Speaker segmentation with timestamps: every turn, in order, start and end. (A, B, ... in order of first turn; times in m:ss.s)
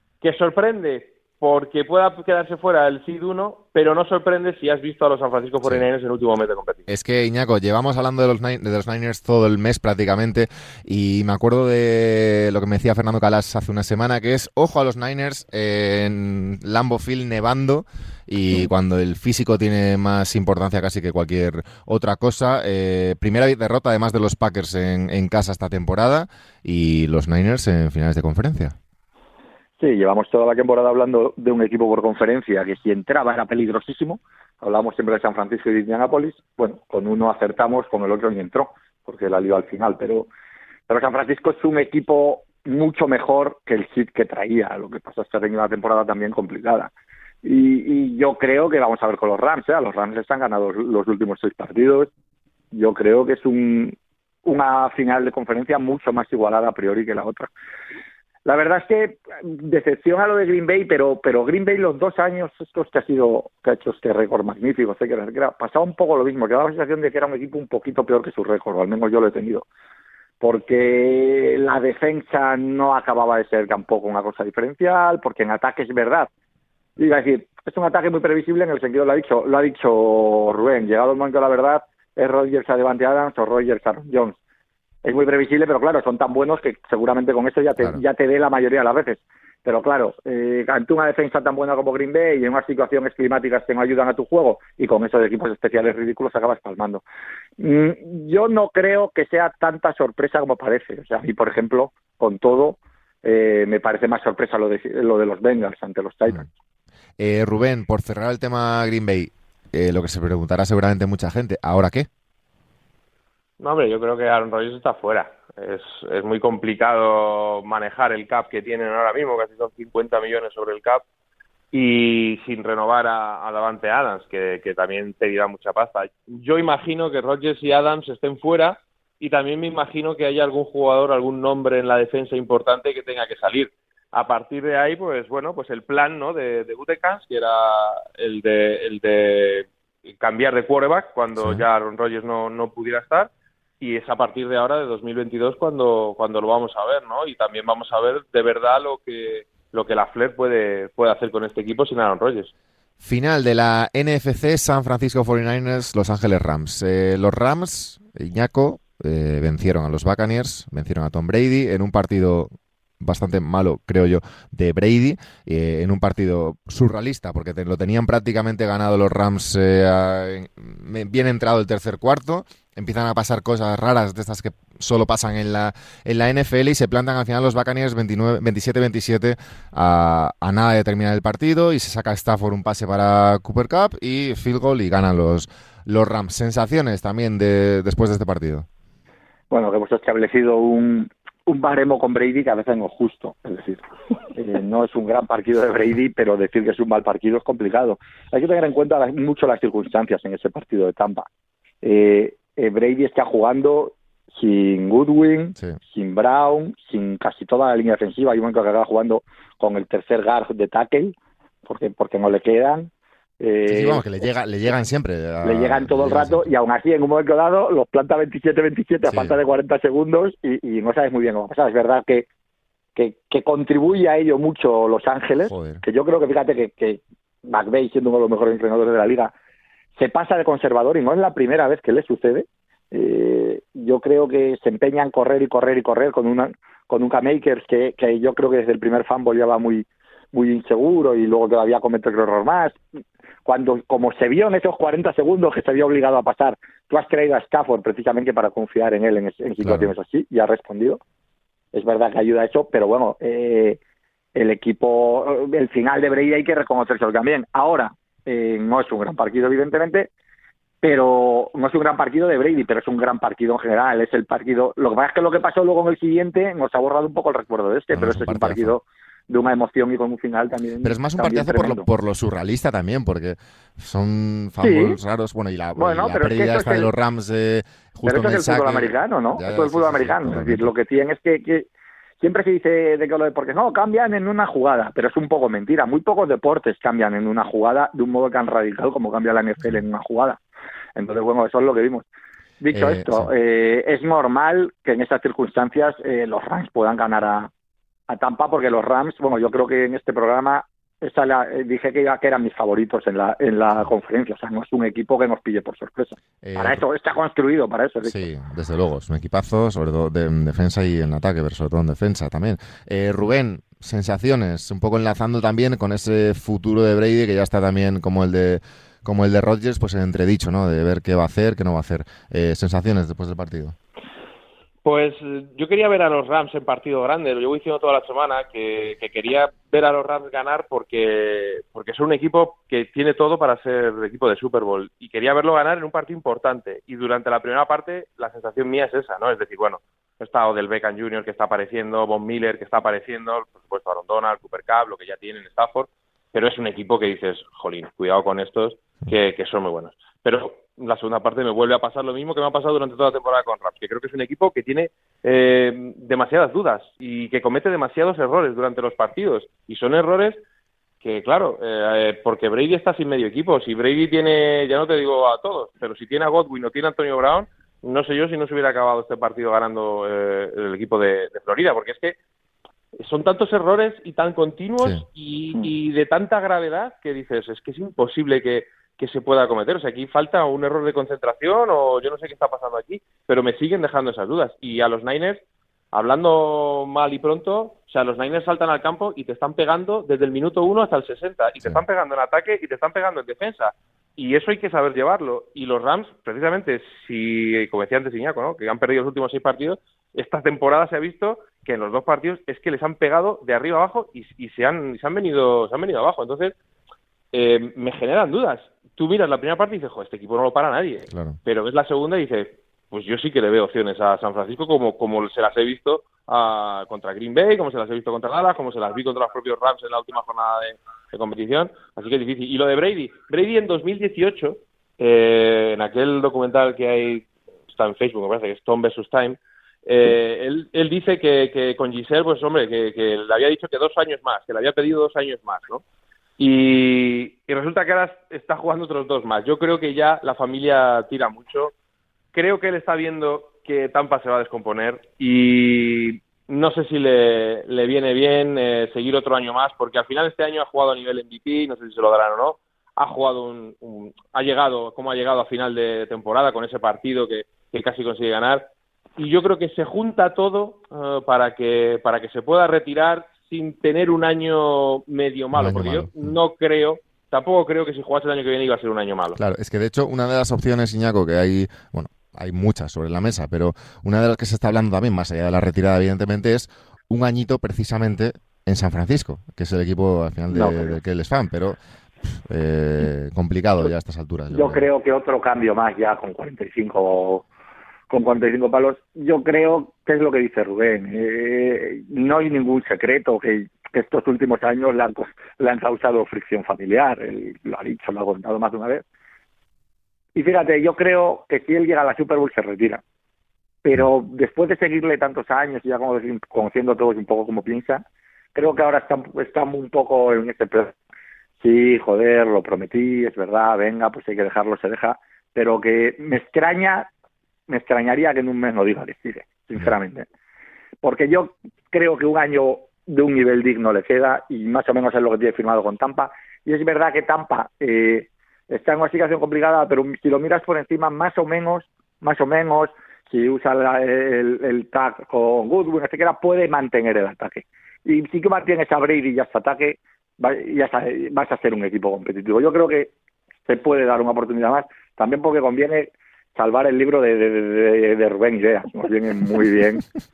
0:00.2-0:06.9 A
0:06.9-0:28.8 B
0:29.8-0:40.3 C
0:40.9-0:46.9 C
0:47.4-0:52.1 C
0:52.7-0:57.5 C
0:58.4-1:09.6 C
1:10.4-1:16.3 C
1:17.0-1:24.4 C
1:25.0-1:37.0 C
1:37.6-1:46.4 C
1:47.2-1:52.1 B
1:53.6-2:01.0 A
2:01.7-2:32.5 A
2:21.4-2:21.6 B
2:33.0-3:08.7 B
3:09.5-3:21.3 C
3:21.8-3:34.1 C
3:33.6-3:36.4 B
3:35.4-3:42.3 C
3:39.0-3:39.4 B
3:42.9-3:49.3 C
3:45.5-3:45.8 B
3:50.0-4:02.8 C
4:03.4-4:11.0 C
4:09.6-4:09.9 B
4:11.7-4:13.8 C
4:14.3-4:20.1 C
4:20.8-4:31.8 C
4:27.9-4:28.7 B
4:30.8-4:40.7 B
4:34.6-4:35.0 C
4:35.8-4:36.9 C
4:38.0-4:41.7 C
4:42.2-4:50.4 C
4:51.0-4:52.0 C
4:52.6-4:57.5 C
4:52.7-4:53.3 B
4:58.1-5:08.2 C
5:06.4-5:06.8 B
5:08.0-5:23.7 B
5:24.8-6:00.4 A
6:01.0-6:12.2 A
6:13.0-6:46.6 A
6:47.3-7:15.8 A
6:51.1-6:51.4 B
7:16.4-7:21.7 A
7:22.3-7:49.4 A
7:45.5-7:46.3 B
7:49.4-8:04.8 B
8:00.5-8:01.0 C
8:04.5-8:07.4 C
8:08.1-8:19.0 C
8:20.3-8:23.0 C
8:23.8-8:30.9 C
8:31.6-8:37.1 C
8:37.7-8:40.2 C
8:41.0-9:03.1 C
9:03.7-9:10.0 C